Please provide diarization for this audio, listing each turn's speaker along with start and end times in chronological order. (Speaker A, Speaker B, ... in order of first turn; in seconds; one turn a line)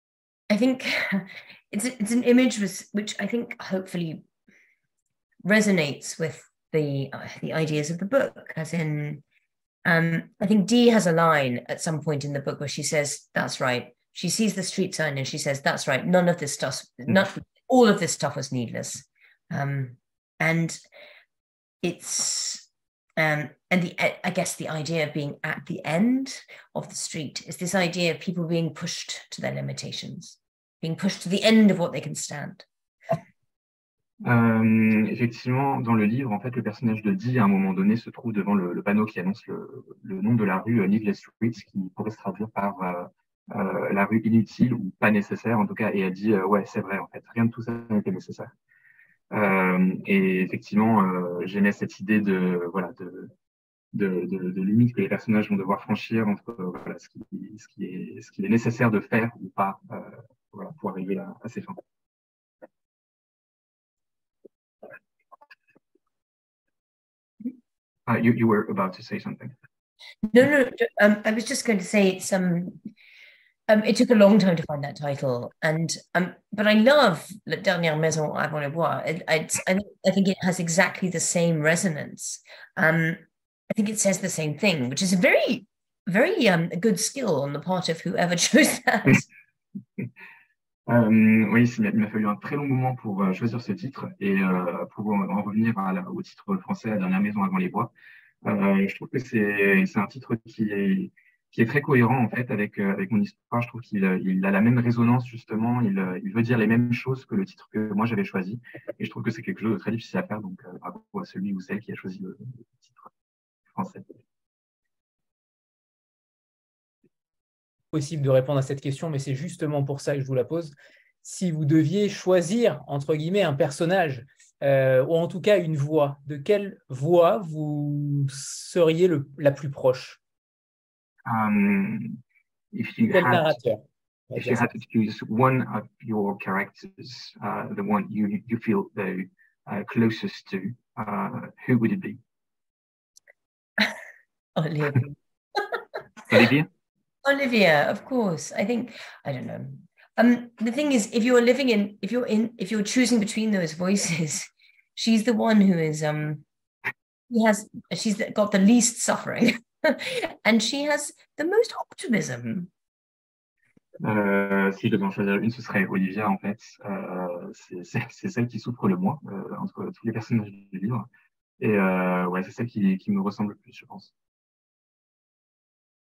Speaker A: 0.5-4.2
Speaker A: 5.4-9.2
Speaker A: 9.8-20.8
Speaker A: 21.8-22.6
Speaker A: 23.2-32.6
Speaker B: 34.2-48.5
Speaker B: 49.3-53.3
Speaker B: 53.9-61.8
Speaker B: 68.1-69.5
Speaker A: 70.3-72.8
Speaker A: 73.7-89.2
Speaker B: 90.9-97.9
Speaker B: 98.4-113.1
Speaker B: 113.7-114.1
Speaker C: 117.9-130.2
Speaker B: 131.2-132.2
Speaker B: 132.7-133.6
Speaker C: 133.1-134.7
Speaker B: 134.3-142.2
Speaker A: 144.6-145.8
Speaker B: 146.3-146.7
Speaker A: 147.2-156.4
Speaker A: 157.3-162.7
Speaker B: 164.0-171.1
Speaker B: 171.6-174.1